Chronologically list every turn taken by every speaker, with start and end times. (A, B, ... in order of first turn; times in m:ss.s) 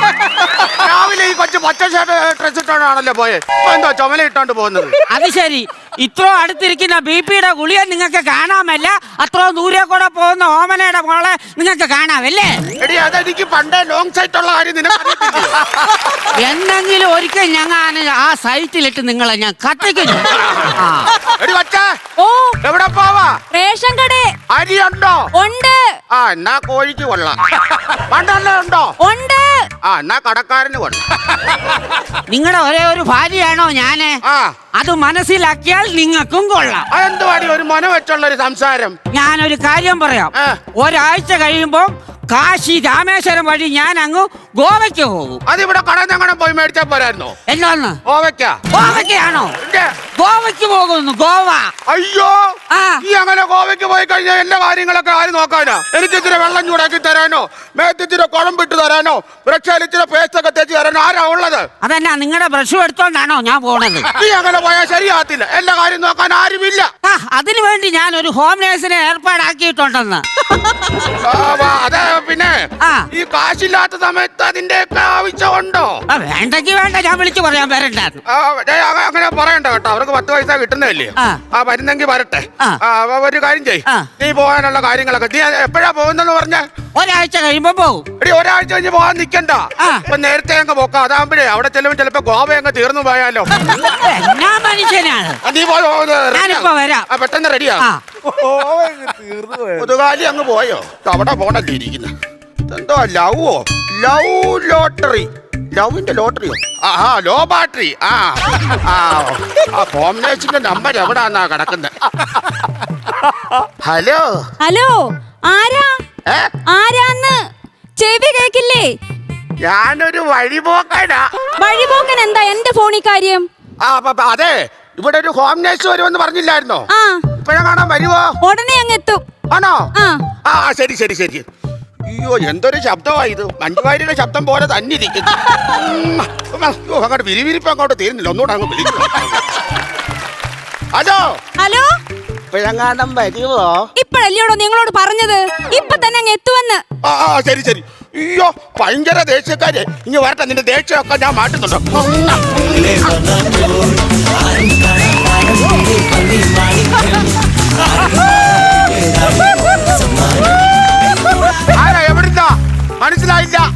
0:00.4-0:05.0 A
0:05.1-0:12.6 B
0:12.8-0:15.6 A
0:16.3-0:21.1 B
0:20.3-0:21.9 A
0:22.2-0:22.6 C
0:22.6-0:23.4 A
0:23.5-0:24.3 C
0:24.5-0:25.3 A
0:25.3-0:25.8 C
0:26.1-0:29.0 A
0:29.0-0:29.6 C
0:29.8-0:31.0 A
0:32.3-0:34.2 B
0:34.2-0:34.5 A
0:34.8-0:36.8 B
0:36.9-0:39.0 A
0:39.1-0:45.4 B
0:40.3-0:40.6 A
0:45.5-0:47.3 A
0:47.5-0:48.0 B
0:48.0-0:48.6 A
0:48.7-0:49.6 B
0:49.6-0:49.9 A
0:50.1-0:51.7 B
0:51.9-0:52.4 A
0:52.7-0:53.0 B
0:53.0-1:01.7 A
1:01.8-1:04.1 B
1:04.1-1:06.9 A
1:07.0-1:10.2 B
1:11.1-1:16.0 A
1:12.8-1:13.1 B
1:16.1-1:18.2 B
1:18.2-1:26.6 A
1:26.9-1:28.0 B
1:28.2-1:33.5 A
1:29.8-1:30.0 B
1:33.6-1:35.4 B
1:35.4-1:37.8 A
1:36.3-1:37.0 B
1:39.8-1:42.1 A
1:42.7-1:52.6 A
1:53.6-1:54.4 A
1:54.6-1:55.9 C
1:56.3-1:56.5 A
1:56.7-1:57.4 C
1:58.0-1:58.9 C
1:59.6-2:01.3 A
2:01.6-2:03.5 C
2:03.8-2:08.3 A
2:06.9-2:07.3 C
2:08.4-2:09.2 C
2:09.5-2:09.9 A
2:10.0-2:10.2 C
2:10.4-2:11.4 A
2:12.1-2:19.6 A
2:20.9-2:21.2 A
2:21.6-2:21.9 C
2:22.5-2:23.9 A
2:24.0-2:26.8 C
2:27.0-2:33.3 A
2:41.6-2:43.7 A